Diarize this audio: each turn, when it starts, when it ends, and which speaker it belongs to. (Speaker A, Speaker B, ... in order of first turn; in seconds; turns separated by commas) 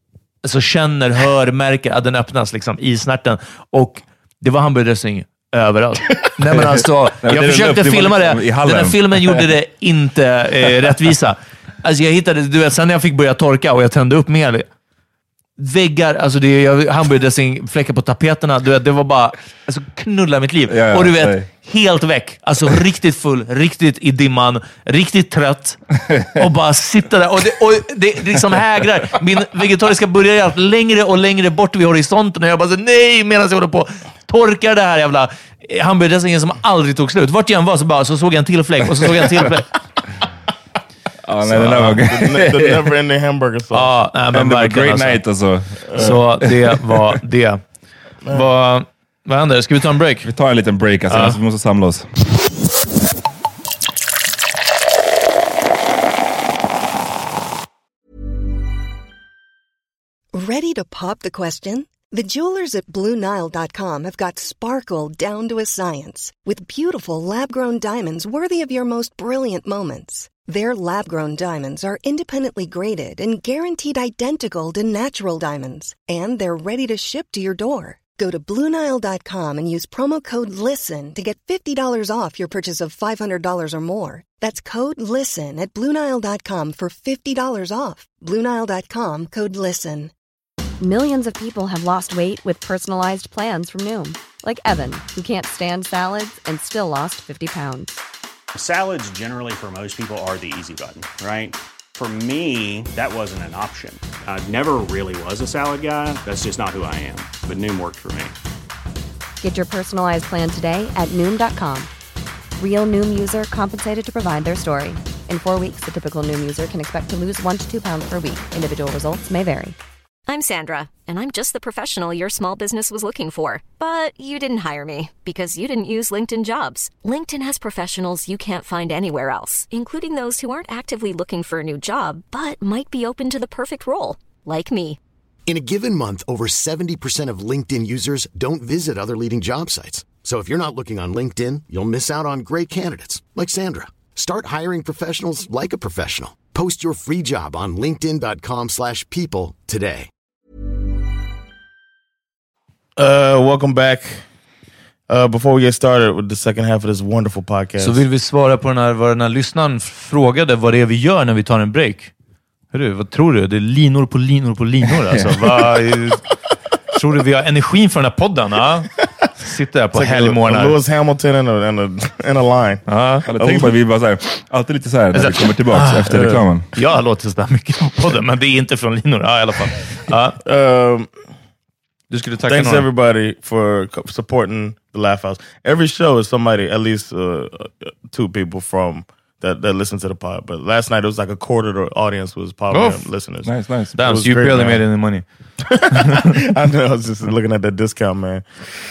Speaker A: 0.4-14.7, Speaker B: 6.5-9.5, Speaker A: 15.6-25.8, Speaker B: 20.7-21.5, Speaker B: 26.1-26.4, Speaker A: 26.4-39.7, Speaker B: 41.2-42.9, Speaker A: 41.5-42.0, Speaker C: 41.6-43.9, Speaker A: 43.7-45.2, Speaker B: 44.3-47.1, Speaker A: 46.0-47.6, Speaker A: 48.3-50.3, Speaker B: 50.2-52.1, Speaker A: 51.1-51.4, Speaker D: 60.3-90.1, Speaker E: 90.8-98.0, Speaker F: 98.5-108.3, Speaker E: 109.4-111.9, Speaker E: 112.6-119.8, Speaker G: 120.3-135.0, Speaker H: 135.5-150.1, Speaker C: 153.0-154.2, Speaker C: 155.1-158.0, Speaker A: 157.8-162.1, Speaker A: 162.7-166.2, Speaker B: 165.1-165.4, Speaker A: 166.9-170.8, Speaker C: 169.9-172.8, Speaker A: 172.9-173.3, Speaker B: 173.3-176.7, Speaker C: 173.4-173.7, Speaker A: 175.1-180.4, Speaker C: 176.1-176.4, Speaker C: 180.4-181.1, Speaker A: 182.1-182.9, Speaker C: 182.5-194.8, Speaker A: 192.7-193.1, Speaker B: 193.4-194.0, Speaker A: 194.0-195.2, Speaker C: 195.7-198.4